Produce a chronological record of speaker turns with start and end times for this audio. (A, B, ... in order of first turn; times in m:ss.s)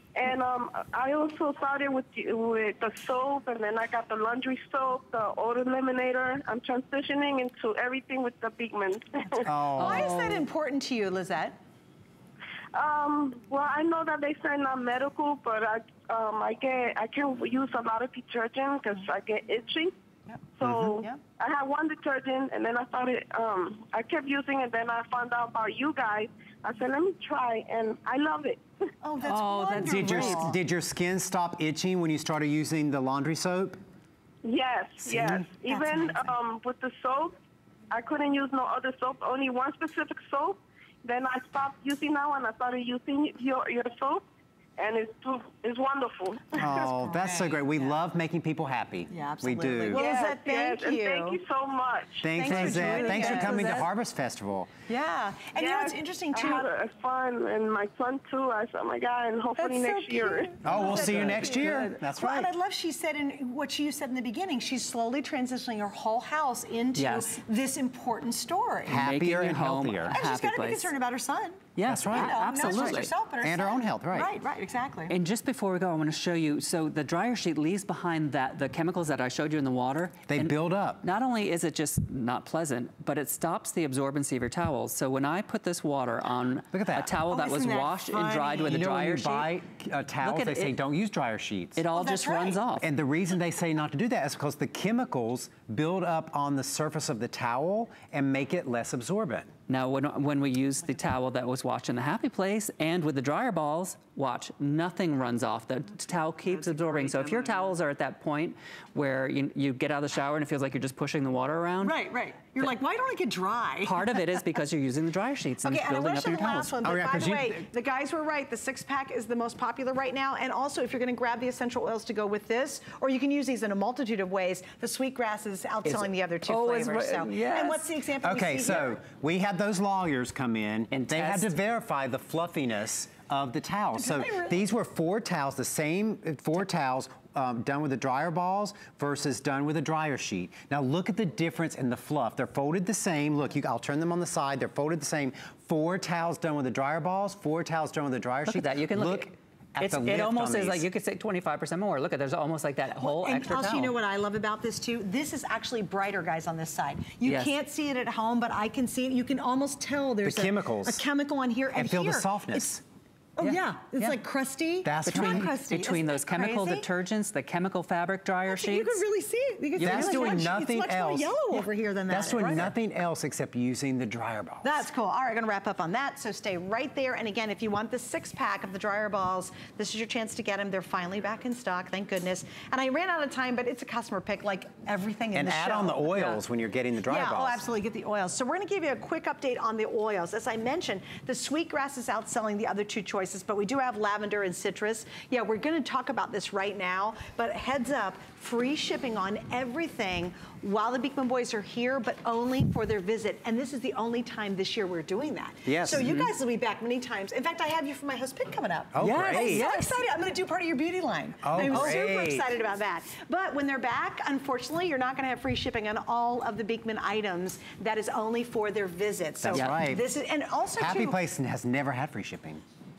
0:00.2-0:09.5 A
0:09.4-0:10.3 B
0:09.7-0:11.6 C
0:09.8-0:10.4 D
0:12.7-0:19.9 A
0:20.6-0:28.6 A
0:20.6-0:20.9 B
0:29.0-0:30.5 C
0:29.2-0:30.5 D
0:29.8-0:33.8 B
0:34.4-0:37.3 A
0:35.1-0:36.3 C
0:37.9-0:44.2 A
0:44.8-0:47.0 A
0:46.6-0:50.0 B
0:46.7-0:47.9 C
0:49.1-0:51.4 C
0:49.9-0:52.4 A
0:52.2-0:54.7 B
0:52.3-0:53.8 C
0:52.4-0:53.9 D
0:54.9-0:56.7 C
0:55.5-1:00.9 A
0:59.6-1:09.0 C
1:00.6-1:02.5 B
1:00.8-1:01.9 D
1:06.9-1:07.3 D
1:08.9-1:10.2 B
1:08.9-1:10.9 D
1:10.1-1:15.1 C
1:11.8-1:13.1 D
1:11.8-1:14.3 B
1:15.1-1:29.5 D
1:20.3-1:21.0 B
1:26.7-1:27.1 B
1:27.2-1:28.8 C
1:28.6-1:31.8 B
1:30.2-1:30.8 D
1:31.8-1:32.9 D
1:31.9-1:32.6 C
1:32.8-1:39.5 B
1:39.7-1:52.0 D
1:46.4-1:47.7 C
1:51.8-1:54.2 C
1:53.8-1:56.7 D
1:55.6-2:08.9 C
1:56.8-1:57.6 B
2:05.8-2:07.8 D
2:08.2-2:30.8 B
2:10.9-2:11.5 D
2:14.0-2:14.6 C
2:28.4-2:33.9 D
2:33.0-2:42.6 C
2:37.2-2:37.5 D
2:40.2-2:41.1 B
2:41.7-2:42.8 B
2:43.4-2:46.9 C
2:43.4-2:44.2 D
2:44.8-2:45.6 B
2:45.0-2:49.0 D
2:48.5-2:52.7 C
2:49.8-2:54.8 B
2:49.8-2:50.4 D
2:54.6-3:06.4 C
3:05.3-3:07.6 B
3:07.0-3:41.2 C
3:25.6-3:26.1 B
3:26.0-3:26.3 D
3:28.9-3:29.7 B
3:29.0-3:30.0 D
3:31.4-3:32.5 B
3:31.5-3:32.0 D
3:39.4-3:40.1 B
3:39.5-3:39.8 D
3:40.8-3:42.6 B